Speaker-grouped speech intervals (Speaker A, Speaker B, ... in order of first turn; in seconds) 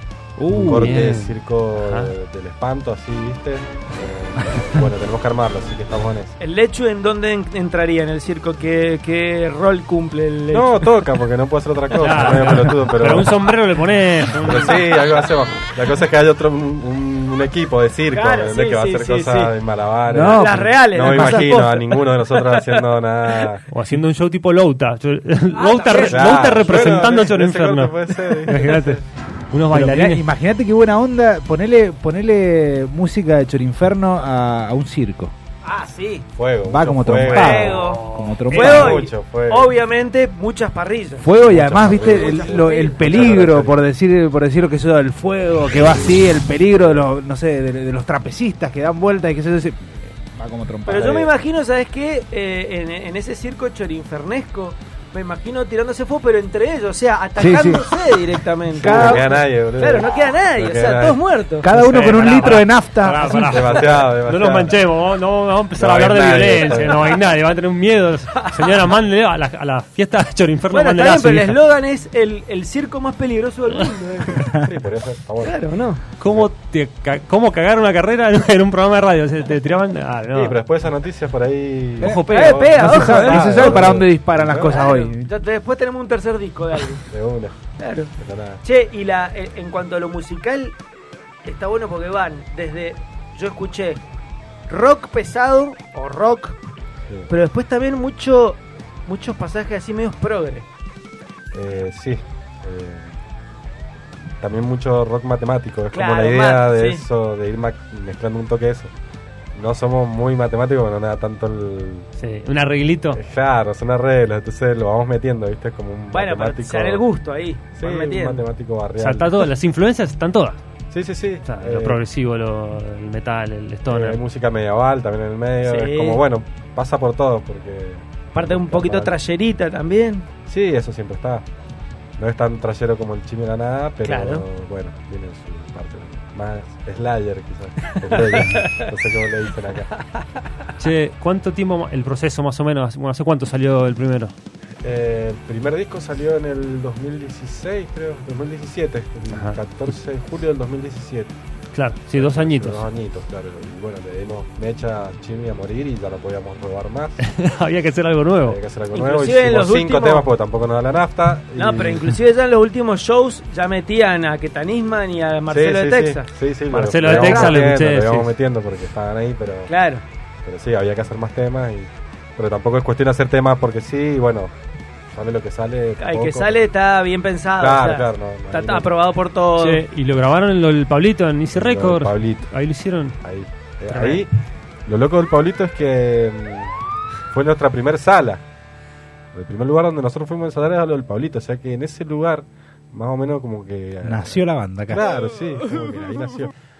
Speaker A: 0.4-1.0, 20.1-21.7, 29.7-35.3, 36.6-39.0, 41.2-51.1, 57.4-57.9, 58.8-59.4, 61.6-63.7, 82.0-85.3, 194.0-195.1
Speaker B: 0.5-6.3, 10.5-13.3, 14.4-23.6, 25.9-29.0, 36.4-38.0, 38.5-39.7, 41.4-43.8, 46.8-47.1, 50.9-51.3, 58.9-61.2, 63.5-64.8, 65.8-67.1, 74.5-75.6, 76.2-76.5, 80.3-84.8, 87.1-87.6, 88.1-88.6, 101.5-103.2, 104.4-108.9, 109.5-112.1, 113.1-117.0, 117.8-119.5, 120.9-122.0, 123.9-129.1, 130.5-131.4, 132.2-139.9, 144.8-151.3, 152.1-157.2, 158.5-162.2, 165.5-169.7, 170.4-174.5, 175.1-176.6, 177.6-178.9, 181.5-182.5, 183.2-184.3, 184.9-186.8, 187.3-188.4, 189.3-196.5
Speaker C: 0.7-2.1, 11.9-15.0, 23.7-30.2, 37.9-38.4, 61.7-71.6, 76.2-80.6, 82.0-83.4, 112.2-113.2, 119.0-120.6, 121.5-124.2, 140.8-144.3, 149.3-149.6, 151.7-152.8, 157.2-158.6, 166.7-168.3, 179.6-183.2, 183.9-184.3
Speaker D: 6.4-10.8, 18.1-19.5, 20.3-22.8, 25.5-27.1, 35.6-36.3, 37.3-41.3, 41.9-43.3, 50.9-61.7, 68.5-68.7, 70.7-74.5, 75.4-76.0, 82.3-84.0, 84.7-87.0, 87.8-88.1, 88.6-90.8, 91.5-94.0, 94.7-96.6, 97.3-100.7, 105.9-107.0, 116.1-118.4, 125.7-126.2, 128.3-130.3, 134.1-134.4, 138.1-139.0, 158.9-160.3, 161.6-166.3, 167.0-167.6, 169.7-170.0, 176.0-179.8